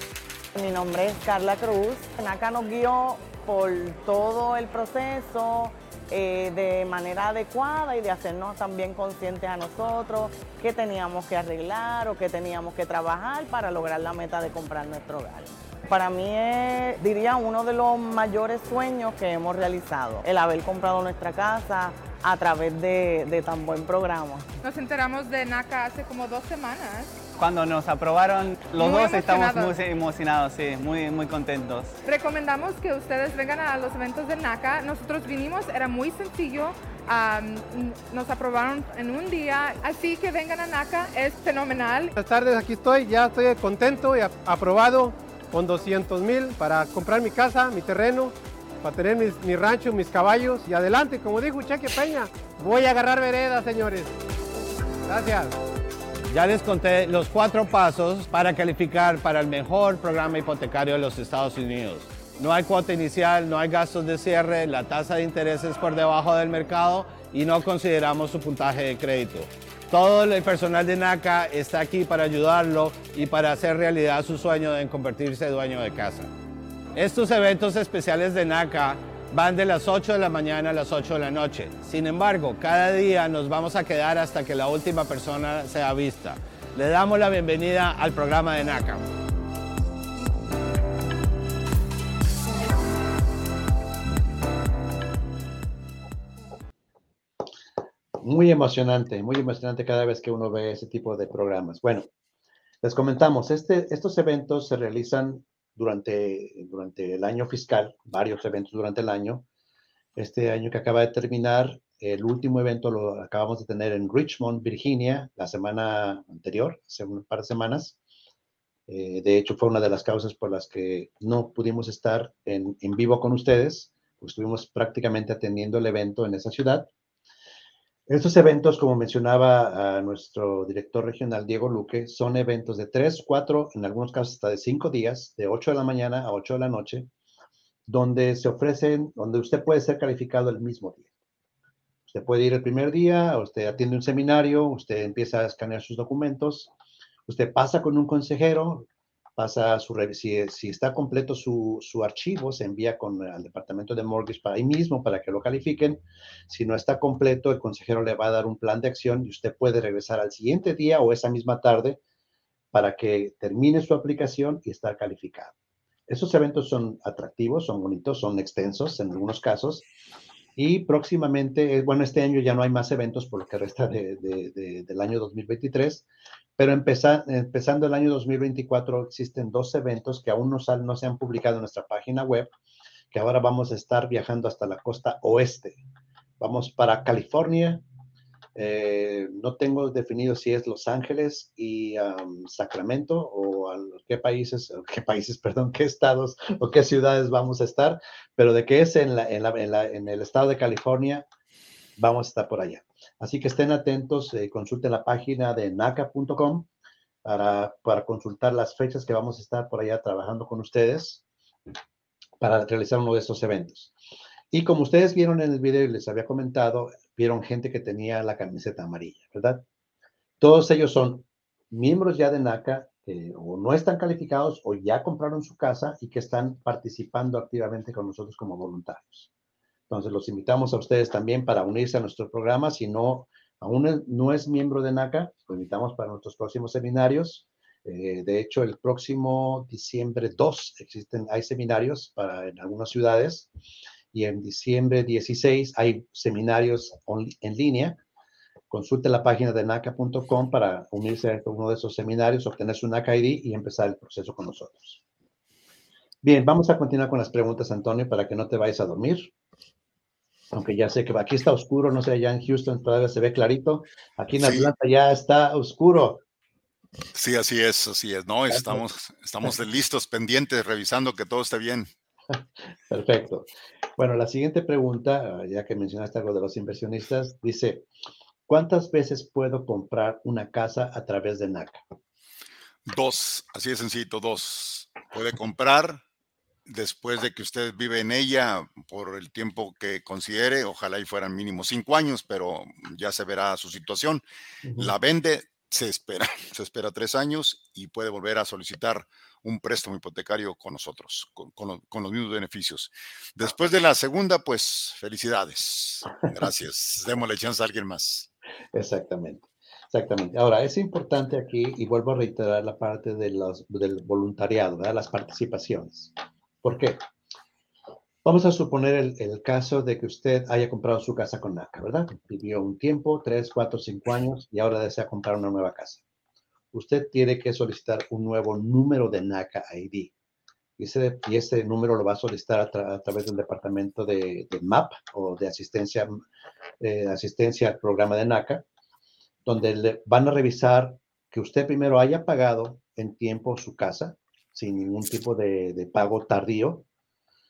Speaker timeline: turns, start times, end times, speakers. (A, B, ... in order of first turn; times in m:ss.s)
0:00.6-0:24.5 A
0:24.6-0:27.2 B
0:27.4-0:32.0 C
0:28.8-0:29.8 B
0:32.0-0:42.1 B
0:42.2-0:54.1 D
0:55.1-0:55.6 D
0:56.3-1:16.3 E
1:17.0-1:29.0 E
1:38.2-1:42.1 F
1:42.8-1:49.4 F
1:50.2-1:58.0 F
1:58.9-2:06.9 F
2:08.1-2:17.1 F
2:17.9-2:21.1 F
2:22.1-2:26.7 F
2:27.3-2:42.0 F
2:42.7-2:45.5 F
2:46.1-2:49.9 F
2:50.6-2:56.0 F
2:56.6-3:02.5 F
3:03.1-3:05.8 F
3:06.4-3:07.8 F
3:08.6-3:21.2 F
3:22.0-3:26.7 F
3:27.2-3:31.2 F
3:32.4-3:33.9 F
3:34.5-3:39.6 F
3:40.4-3:49.3 F
3:49.9-4:03.5 F
4:04.1-4:08.0 F
4:08.7-4:15.0 F
4:16.2-4:19.3 F
4:20.5-4:26.2 F
4:24.4-4:24.7 G
4:27.1-4:31.9 G
4:32.9-4:37.9 F
4:38.5-4:41.8 F
4:42.8-4:46.0 G
4:46.7-4:54.2 G
4:54.6-4:54.9 F
4:54.8-5:08.3 G
5:08.7-5:16.1 F
5:16.6-5:17.0 F
5:18.2-5:26.0 F
5:26.7-5:30.1 F
5:30.8-5:36.1 F
5:36.8-5:38.6 F
5:39.5-5:46.9 F